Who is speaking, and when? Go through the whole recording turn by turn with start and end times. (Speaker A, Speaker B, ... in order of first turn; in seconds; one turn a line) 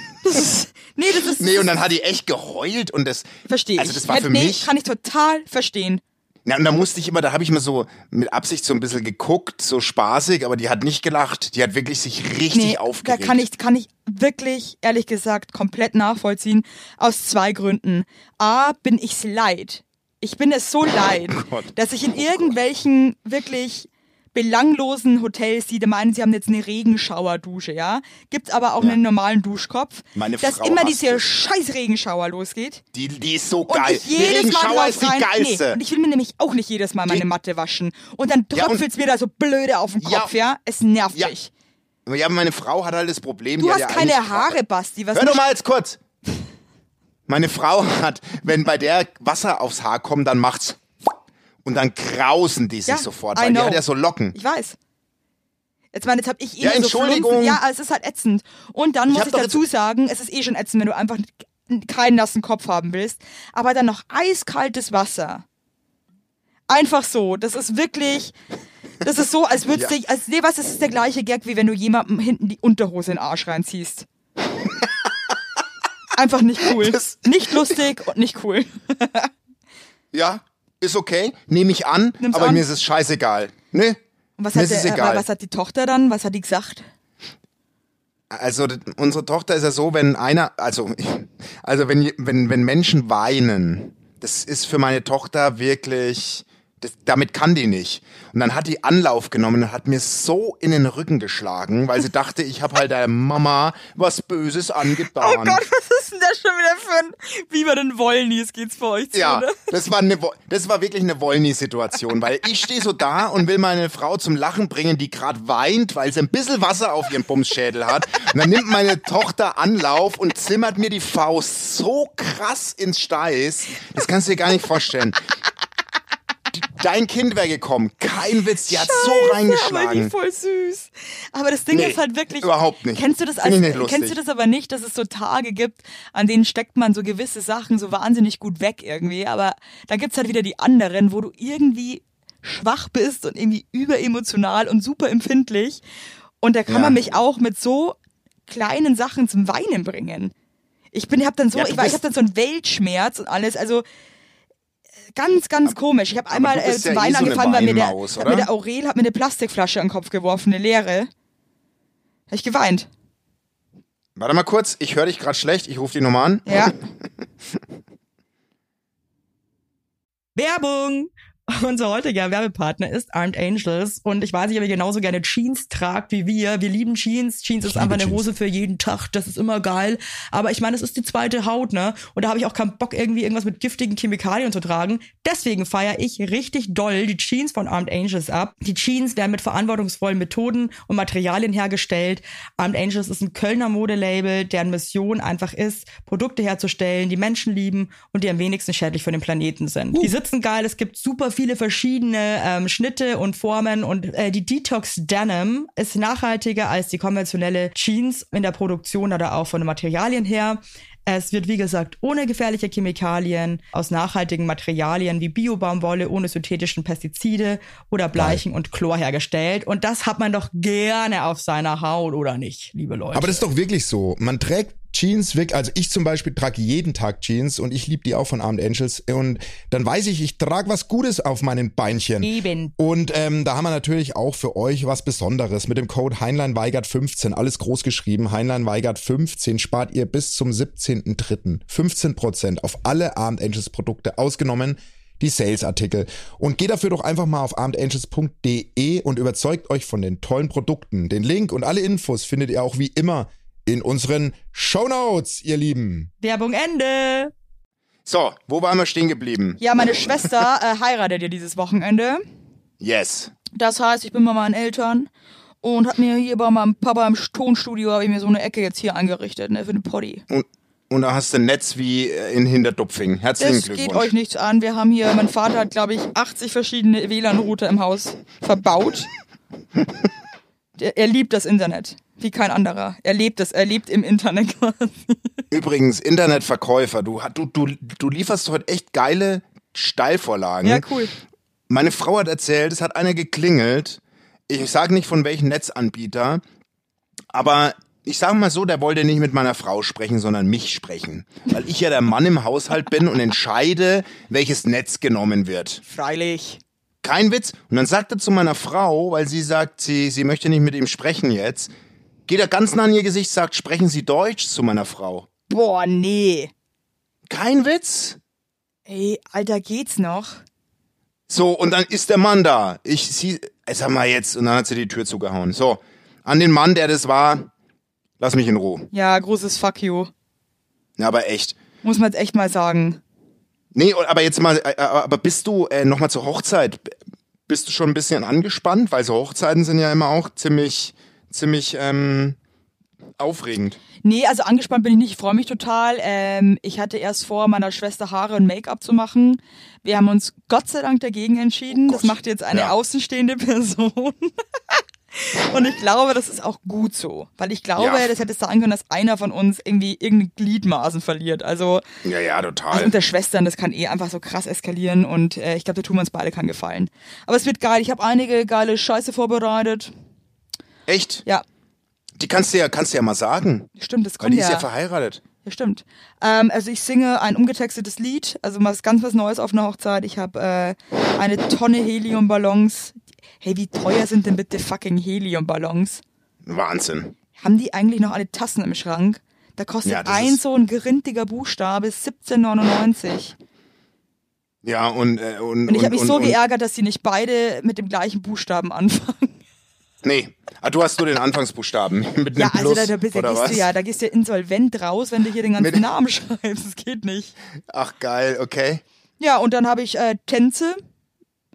Speaker A: 0.2-1.7
Speaker B: 1.3-4.7
Speaker A: 3.5-6.0
Speaker B: 6.4-13.4
Speaker A: 12.5-32.8
Speaker B: 21.3-22.6
Speaker B: 30.1-31.3
Speaker B: 32.9-35.8
Speaker A: 33.7-41.5
Speaker B: 38.5-38.8
Speaker B: 40.0-40.3
Speaker B: 42.0-44.6
Speaker A: 43.6-45.4
Speaker B: 45.1-46.0
Speaker B: 47.3-50.8
Speaker B: 51.6-54.4
Speaker A: 52.9-54.8
Speaker A: 55.9-65.4
Speaker B: 56.6-57.6
Speaker B: 59.1-59.6
Speaker A: 66.7-68.3
Speaker A: 69.0-74.1
Speaker A: 76.1-79.3
Speaker B: 76.6-77.8
Speaker B: 80.1-84.0
Speaker A: 82.2-82.6
Speaker A: 84.4-86.8
Speaker B: 84.5-85.2
Speaker B: 88.3-105.6
Speaker A: 105.0-109.6
Speaker B: 109.1-125.2
Speaker B: 126.5-130.1
Speaker A: 128.7-145.8
Speaker B: 131.7-134.2
Speaker A: 146.4-150.3
Speaker B: 146.7-147.0
Speaker A: 150.9-153.8
Speaker B: 151.5-152.0
Speaker A: 155.2-161.1
Speaker B: 156.3-158.5
Speaker A: 162.3-162.9
Speaker B: 164.2-166.8
Speaker A: 166.4-166.7
Speaker C: 170.3-223.3
Speaker D: 177.6-178.2
Speaker D: 218.2-218.4
Speaker D: 223.1-256.1
Speaker A: 232.2-232.7
Speaker B: 232.8-233.7
Speaker C: 256.2-257.2
Speaker B: 258.1-260.0
Speaker A: 259.6-262.2
Speaker B: 262.8-263.3
Speaker A: 263.5-265.1
Speaker A: 265.6-270.2
Speaker B: 270.3-274.1
Speaker A: 273.4-279.1
Speaker A: 280.8-285.3
Speaker B: 285.5-290.9
Speaker A: 290.6-291.1
Speaker B: 291.7-296.4
Speaker B: 297.3-305.8
Speaker A: 305.9-306.6
Speaker B: 307.0-311.7
Speaker B: 312.3-315.3
Speaker A: 315.5-316.5
Speaker B: 317.3-318.2
Speaker A: 318.9-320.4
Speaker B: 321.3-327.5
Speaker B: 328.2-328.9
Speaker A: 328.9-330.1
Speaker B: 331.0-331.6
Speaker A: 331.8-333.0
Speaker B: 333.7-336.9
Speaker B: 337.5-342.4
Speaker B: 343.2-343.8
Speaker A: 344.0-361.8
Speaker B: 351.7-352.7
Speaker B: 357.8-358.1
Speaker B: 362.0-362.9
Speaker A: 362.7-369.9
Speaker B: 370.9-371.2
Speaker B: 372.2-373.7
Speaker A: 373.8-374.7
Speaker B: 374.2-375.2
Speaker A: 375.4-386.0
Speaker B: 386.4-387.1
Speaker A: 387.4-393.4
Speaker B: 389.8-390.4
Speaker B: 394.6-396.4
Speaker A: 395.6-399.4
Speaker B: 400.0-403.7
Speaker A: 402.4-407.4
Speaker B: 405.6-405.9
Speaker B: 407.7-408.8
Speaker A: 409.2-410.8